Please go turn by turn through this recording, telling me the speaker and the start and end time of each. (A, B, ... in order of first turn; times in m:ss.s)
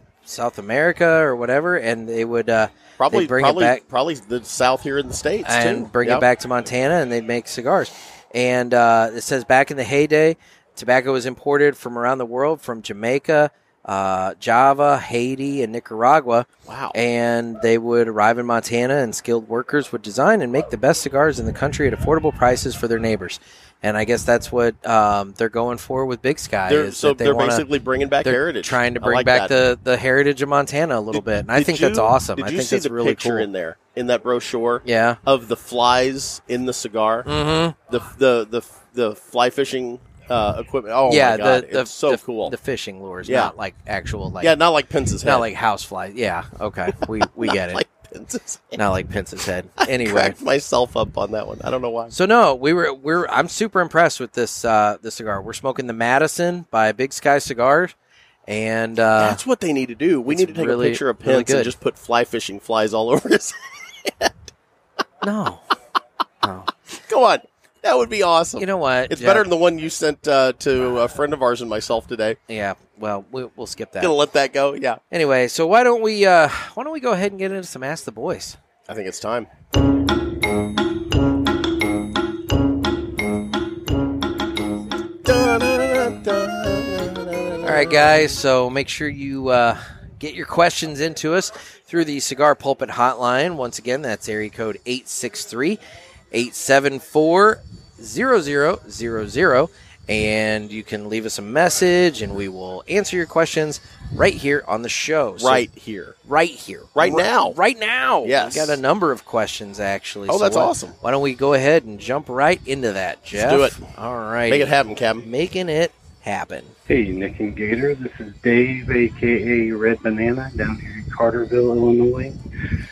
0:00.2-0:03.8 A
0:03.0-0:06.2 B
0:05.4-0:27.6 A
0:16.6-0:17.0 B
0:26.7-0:29.5 B
0:28.2-0:33.5 A
0:31.1-0:37.3 B
0:34.8-0:35.2 A
0:37.2-0:37.8 A
0:37.9-0:42.5 B
0:41.1-0:44.6 A
0:43.2-0:43.5 B
0:44.4-0:45.5 B
0:45.2-0:47.8 A
0:47.0-0:48.8 B
0:48.8-0:50.4 A
0:49.8-0:52.1 B
0:52.1-0:57.9 A
0:58.5-0:59.4 A
0:59.2-1:04.5 B
1:00.3-1:01.7 A
1:05.2-1:05.6 A
1:06.4-1:06.7 A
1:07.1-1:12.4 B
1:08.6-1:09.5 A
1:12.5-1:14.1 A
1:14.0-1:15.0 B
1:15.1-1:18.6 A
1:18.9-1:19.5 B
1:25.2-1:28.1 B
1:27.6-1:35.8 A
1:36.3-1:45.6 A
1:45.4-1:46.2 B
1:46.2-1:56.7 A
1:46.9-1:47.6 B
1:48.2-1:48.8 B
1:50.3-1:50.9 B
1:53.3-1:53.8 B
1:54.5-1:55.2 B
1:56.9-2:02.4 C